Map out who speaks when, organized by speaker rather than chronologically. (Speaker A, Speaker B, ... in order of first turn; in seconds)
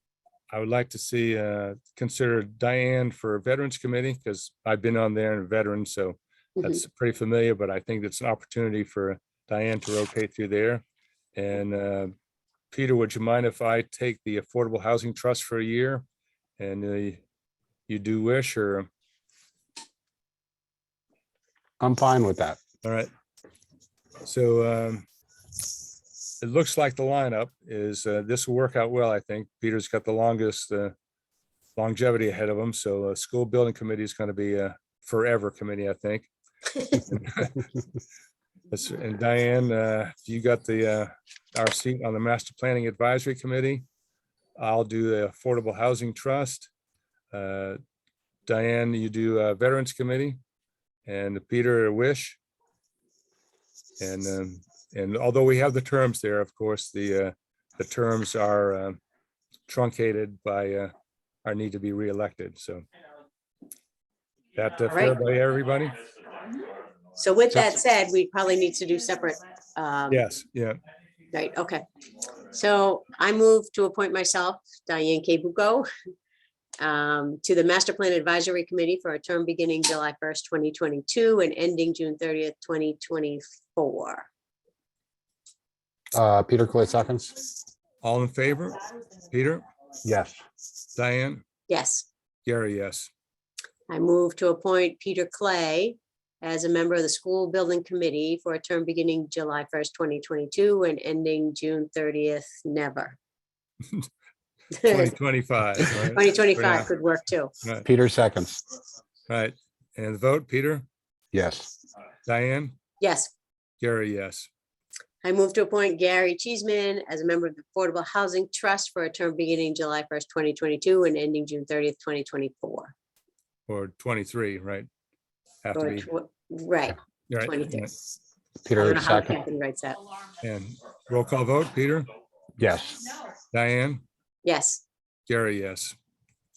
Speaker A: 0.5-10.8, 11.3-12.1, 12.7-16.0, 16.6-17.2, 17.9-18.9, 22.8-23.1, 24.2-25.1, 26.4-30.9, 31.8-36.3, 36.9-37.6, 38.7-43.9, 44.6-46.7, 47.3-47.8, 48.5-50.4, 51.0-52.4, 54.0-59.0, 59.7-60.9, 61.4-62.8, 64.5-66.0, 70.1-70.8, 88.0-89.6, 91.0-91.4, 92.5-93.1, 104.9-106.9, 109.3-110.8, 112.2-112.8, 113.8-114.5, 123.7-124.9, 125.6-126.1, 127.3-127.9, 130.4-132.1, 133.5-134.0, 135.3-135.9
Speaker B: 21.8-22.6, 67.5-67.8, 86.1-87.3, 90.0-90.4, 107.8-108.6, 111.3-111.7, 128.6-129.4, 132.6-133.0
Speaker C: 64.9-65.2, 67.2-70.3, 71.3-71.8, 72.4-75.9, 76.8-84.3, 91.7-92.0, 93.9-103.2, 104.8-105.1, 106.1-107.5, 113.0-113.3, 115.2-122.9, 125.7-127.9, 128.8-130.0, 134.4-134.8